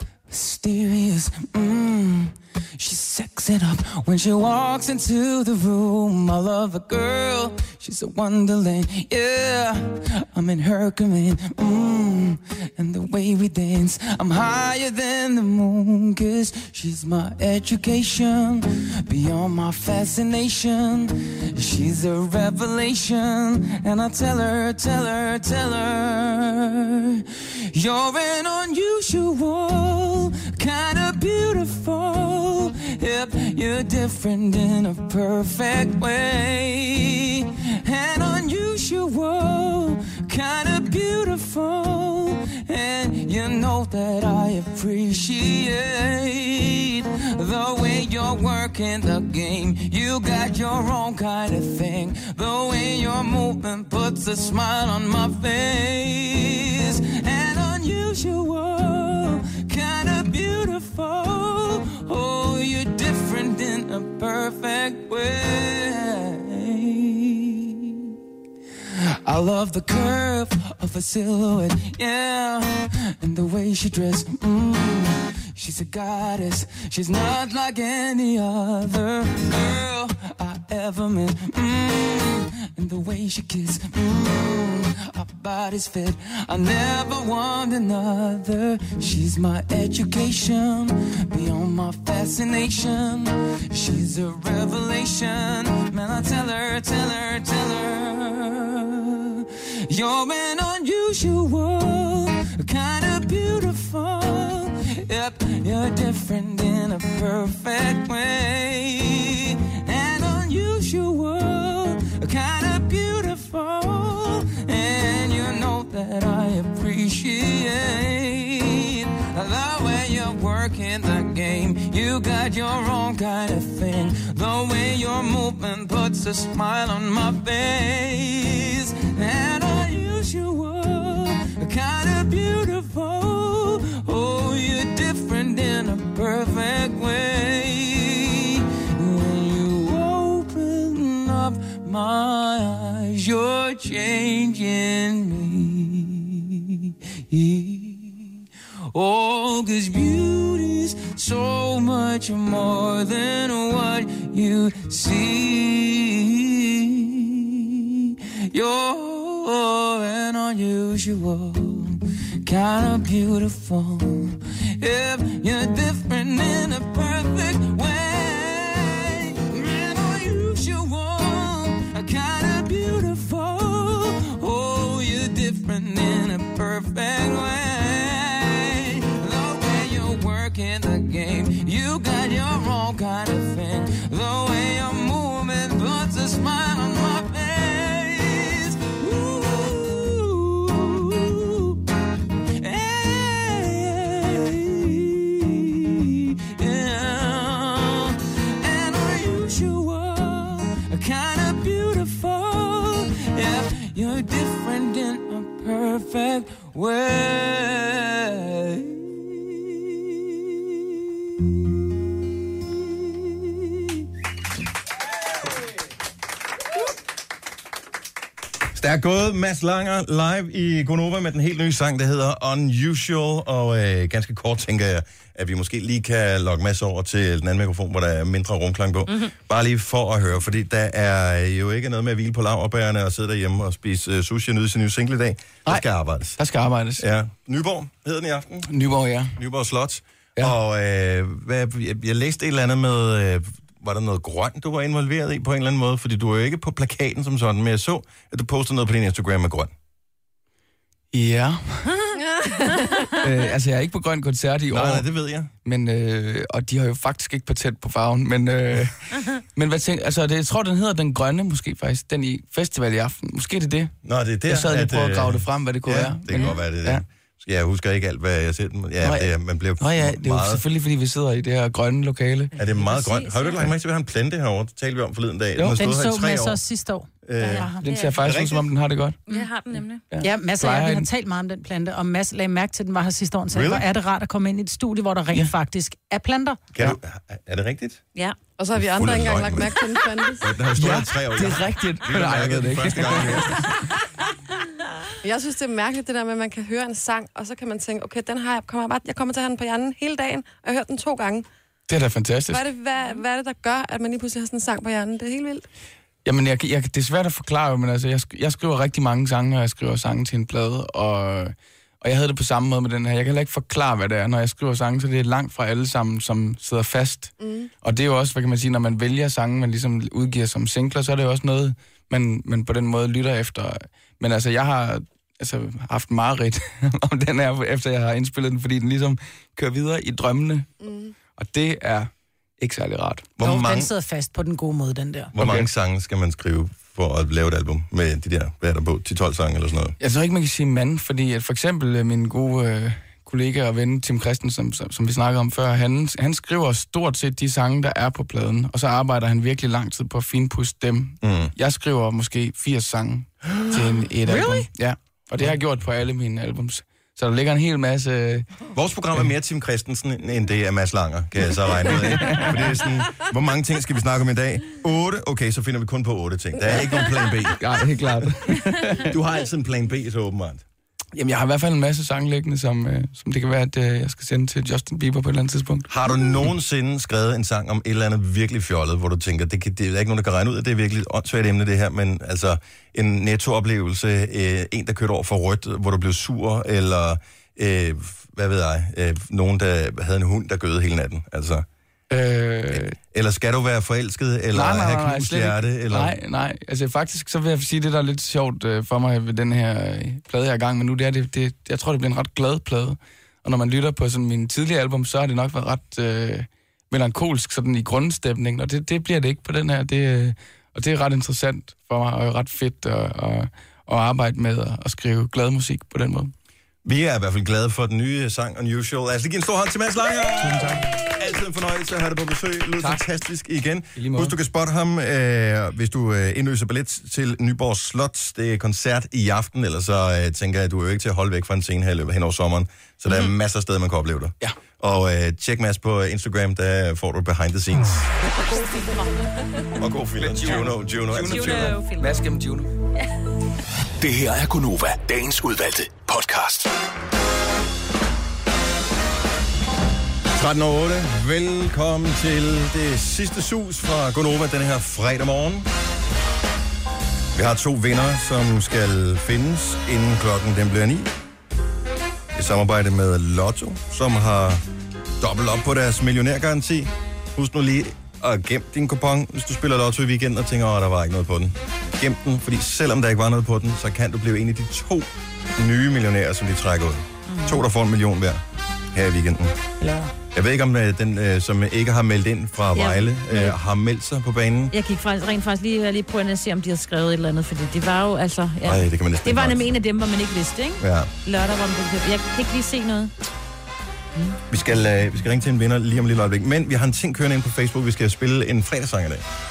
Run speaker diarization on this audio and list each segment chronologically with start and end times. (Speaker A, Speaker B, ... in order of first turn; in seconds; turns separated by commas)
Speaker A: 0.3-68.1, Speaker A: 68.9-191.8, Speaker A: 192.6-211.6, Speaker A: 212.6-214.1, Speaker B: 218.7-236.4, Speaker C: 236.4-237.1, Speaker B: 237.0-238.7, Speaker C: 238.7-239.4, Speaker B: 239.4-249.7, Speaker C: 251.1-252.1, Speaker D: 252.2-253.2, Speaker C: 253.2-255.1, Speaker B: 254.7-255.5, Speaker C: 255.6-263.9, Speaker B: 264.0-270.6, Speaker C: 264.5-267.0, Speaker E: 266.3-266.6, Speaker C: 269.0-272.5, Speaker B: 272.6-276.6, Speaker E: 272.8-273.7, Speaker C: 275.6-275.9, Speaker F: 275.8-277.8, Speaker B: 277.2-278.6, Speaker E: 277.4-278.3, Speaker C: 277.8-279.2, Speaker E: 279.3-280.0, Speaker C: 280.1-281.1, Speaker F: 280.2-286.6, Speaker B: 283.5-283.9, Speaker B: 286.7-288.0, Speaker D: 288.6-290.5, Speaker B: 288.8-289.8, Speaker B: 290.4-293.7, Speaker C: 290.8-293.9, Speaker D: 295.2-301.5, Speaker C: 301.9-302.6, Speaker D: 302.5-305.6, Speaker C: 306.2-330.7, Speaker D: 317.4-317.7, Speaker D: 330.8-331.1, Speaker C: 331.4-333.3, Speaker B: 333.4-333.9, Speaker F: 333.4-335.3, Speaker B: 335.4-340.0, Speaker C: 335.4-335.7, Speaker C: 340.0-358.5, Speaker B: 351.2-351.5, Speaker B: 358.7-367.6, Speaker C: 361.7-362.9, Speaker C: 366.7-369.1, Speaker B: 368.2-370.6, Speaker C: 371.1-375.9, Speaker B: 375.9-391.7, Speaker C: 392.1-393.0, Speaker B: 392.7-396.2, Speaker C: 394.5-416.3, Speaker B: 416.8-438.1, Speaker C: 420.4-421.0, Speaker C: 422.8-423.1, Speaker C: 424.0-424.3, Speaker E: 438.4-439.1, Speaker B: 439.8-441.8, Speaker C: 440.2-442.7, Speaker E: 441.1-442.1, Speaker G: 444.0-446.7, Speaker B: 450.3-455.7, Speaker B: 457.3-461.1, Speaker B: 462.3-464.6, Speaker B: 465.2-478.4, Speaker E: 477.3-477.6, Speaker B: 478.9-479.6, Speaker F: 479.8-480.1, Speaker B: 480.3-484.7, Speaker E: 482.8-483.6, Speaker E: 484.7-493.1, Speaker B: 488.6-489.6, Speaker B: 490.8-491.1, Speaker B: 494.5-499.3